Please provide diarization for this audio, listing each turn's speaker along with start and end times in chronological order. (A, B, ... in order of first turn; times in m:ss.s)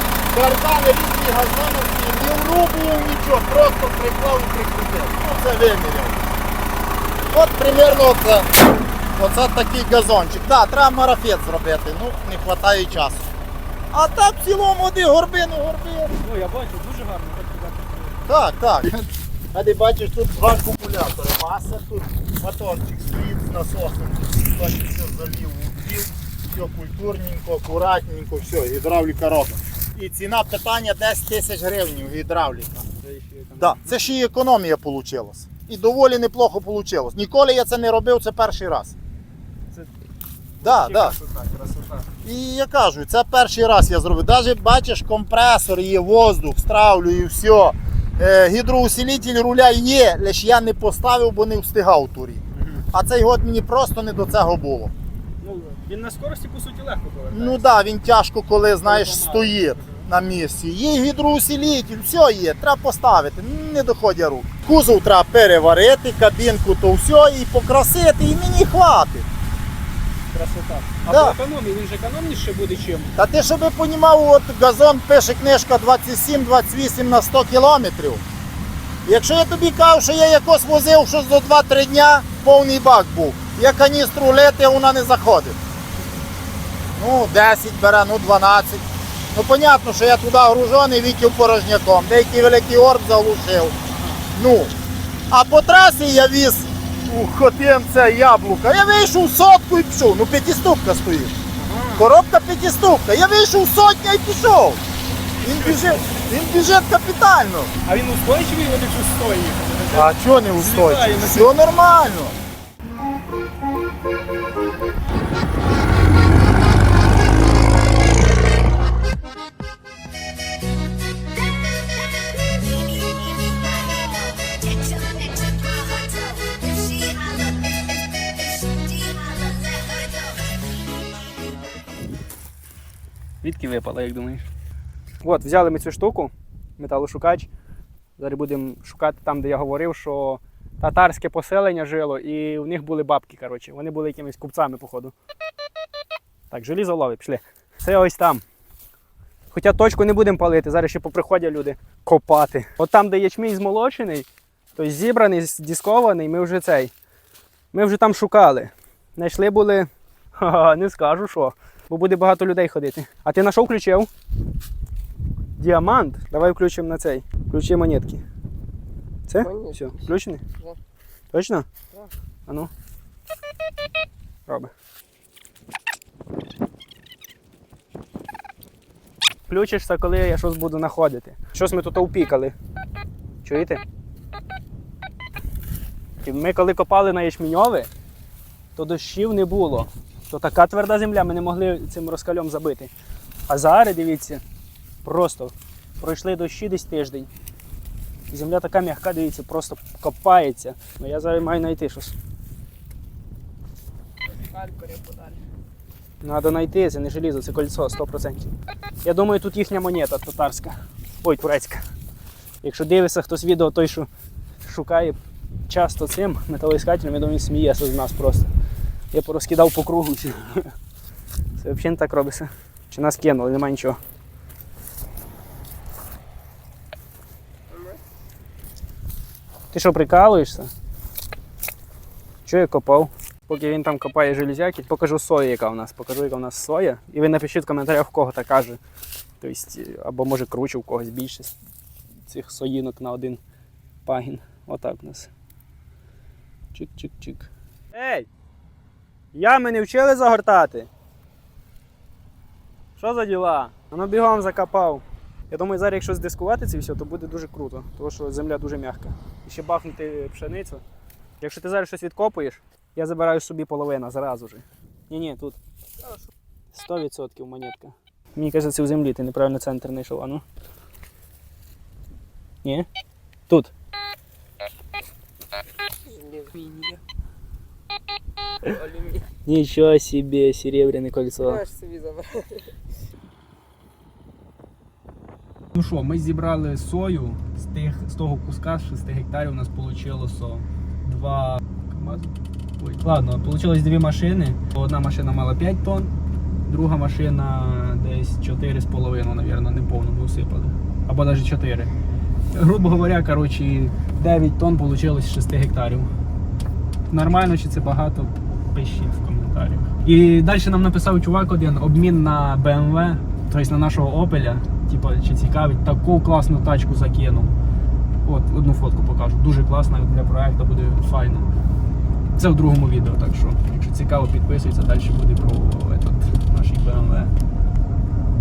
0:00.3-0:06.2 A
0:07.3-0:08.5 A
0:09.1-0:13.3 A
0:13.9-0:16.1 A
0:16.2-0:18.2 B
0:18.3-0:32.8 A
0:33.0-0:34.1 B
0:33.6-0:39.0 A
0:40.6-0:42.1 B
0:40.6-0:41.1 A
0:42.2-0:54.9 A
0:52.6-0:52.8 B
0:55.4-0:57.7 B
0:57.3-1:09.3 A
0:58.8-1:00.0 B
1:10.3-1:13.1 B
1:11.1-1:11.4 A
1:13.1-1:18.2 A
1:19.0-1:25.6 A
1:27.0-1:33.7 A
1:34.3-1:34.7 A
1:35.3-1:41.4 A
1:41.6-1:42.1 B
1:42.0-1:44.8 A
1:45.4-1:46.0 B
1:45.4-1:47.7 A
1:47.8-1:51.5 B
1:49.9-1:52.4 A
2:03.0-2:07.6 C
2:08.4-2:10.4 C
2:13.4-2:14.4 B
2:15.2-2:17.5 B
2:18.2-2:25.1 B
2:26.5-2:28.4 B
2:29.5-2:36.9 B
2:37.7-2:44.1 B
2:45.6-2:48.2 B
2:49.3-2:50.4 B
2:51.3-2:51.7 B
2:54.5-2:54.7 B
2:59.5-3:02.5 B
3:03.4-3:03.8 B
3:06.2-3:07.9 B
3:08.8-3:12.9 B
3:13.5-3:14.4 B
3:15.0-3:17.3 B
3:18.3-3:22.1 B
3:24.4-3:25.4 B
3:26.2-3:28.4 B
3:29.0-3:31.8 B
3:32.6-3:34.1 B
3:34.6-3:38.5 B
3:39.1-3:40.7 B
3:41.6-3:44.0 B
3:49.7-3:50.7 B
3:52.4-3:58.8 B
3:59.4-4:01.5 B
4:02.3-4:03.4 B
4:04.0-4:05.3 B
4:06.7-4:08.3 B
4:09.3-4:10.9 B
4:13.0-4:20.8 B
4:21.4-4:25.6 B
4:26.7-4:30.4 B
4:36.1-4:36.5 C
4:36.6-4:37.0 B
4:38.7-4:41.8 B
4:41.7-4:42.6 C
4:45.8-4:56.1 B
4:56.6-5:01.9 B
5:02.5-5:06.1 B
5:07.1-5:17.5 B
5:18.2-5:21.5 B
5:22.4-5:27.3 B